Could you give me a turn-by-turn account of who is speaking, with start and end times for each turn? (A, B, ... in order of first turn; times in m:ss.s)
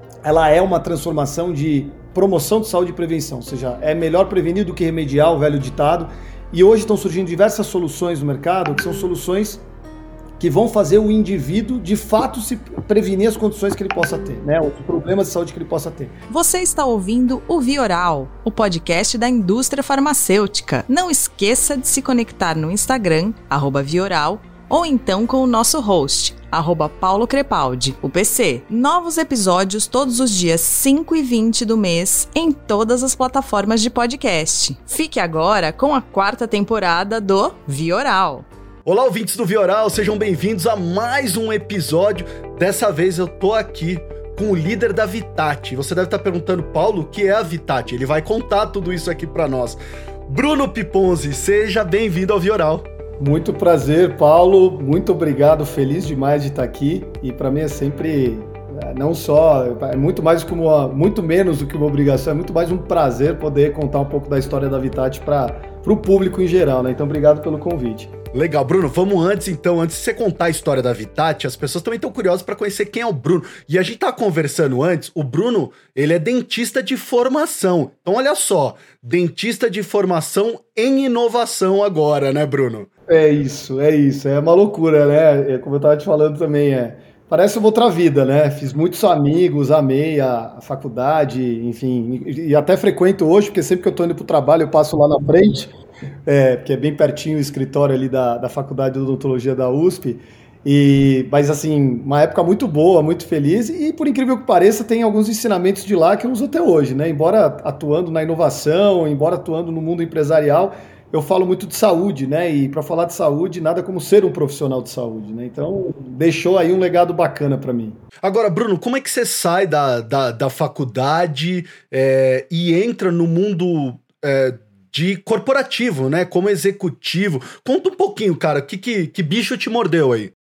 0:00.2-0:09.6 A
0:10.4-0:16.1 A
0:16.3-0:38.5 B
0:38.8-0:52.8 C
0:53.2-1:08.1 A
1:08.3-1:22.9 C
1:23.1-1:35.7 A
1:36.2-1:58.0 A
1:58.2-2:10.3 C